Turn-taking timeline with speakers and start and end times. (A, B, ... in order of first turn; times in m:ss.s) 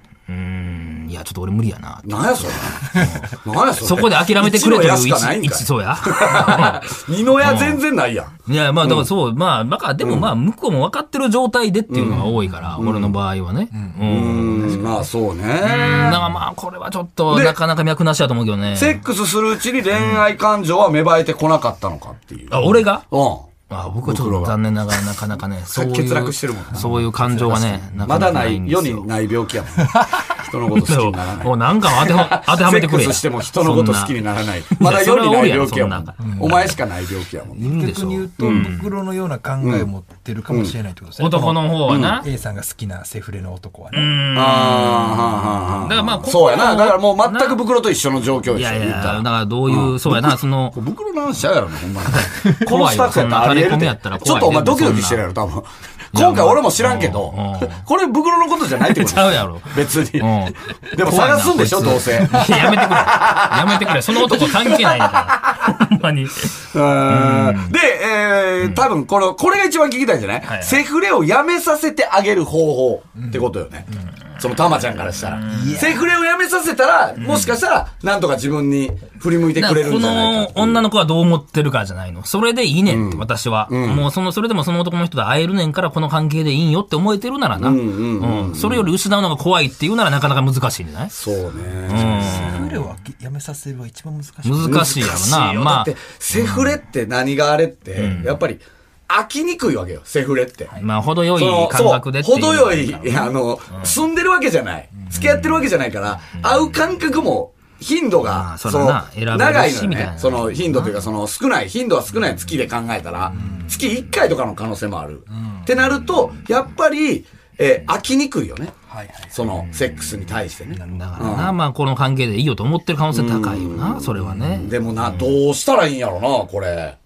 0:00.3-0:07.8 A
0:02.0-0:09.1 B
0:08.5-0:15.0 A
0:10.0-0:10.3 B
0:11.9-0:12.2 B
0:12.8-0:13.2 B
0:13.7-0:15.0 C
0:14.0-0:16.2 B
0:15.6-0:19.0 A
0:17.3-0:17.6 B
0:18.7-0:23.5 B
0:20.0-0:20.2 A
0:22.5-0:23.1 A
0:23.7-0:29.1 A
0:24.0-0:24.6 B
0:25.7-0:26.9 B
0:26.7-0:27.9 C
0:28.0-0:37.7 B
0:30.7-0:36.8 A
0:36.2-0:36.8 C
0:37.6-0:38.9 A
0:37.6-0:44.2 C
0:38.4-0:38.7 B
0:39.6-0:39.9 B
0:40.5-0:40.8 B
0:41.2-0:42.3 A
0:41.9-0:42.2 B
0:43.9-0:47.6 A
0:44.3-1:05.8 B
0:48.5-0:50.8 A
0:52.1-0:55.2 A
0:56.1-0:57.8 A
0:58.8-1:07.7 A
1:06.6-1:13.9 B
1:10.4-1:10.8 A
1:13.2-1:14.1 C
1:14.4-1:20.8 B
1:15.3-1:15.9 A
1:15.5-1:16.1 C
1:17.2-1:17.6 A
1:19.6-1:31.1 A
1:22.9-1:24.1 B
1:27.6-1:28.9 B
1:31.1-1:32.6 B
1:31.6-1:35.1 C
1:31.9-1:32.8 A
1:34.4-1:36.8 A
1:34.6-1:40.8 B
1:38.0-1:38.4 A
1:40.7-1:44.0 A
1:41.4-1:58.7 B
1:45.1-1:45.6 A
1:46.2-1:46.6 A
1:48.3-1:51.0 A
1:53.3-1:53.9 C
1:55.3-1:55.7 C
1:58.9-1:59.4 C
1:59.3-2:01.6 B
1:59.6-2:00.3 A
2:00.7-2:01.4 C
2:00.9-2:05.4 A
2:03.1-2:07.0 B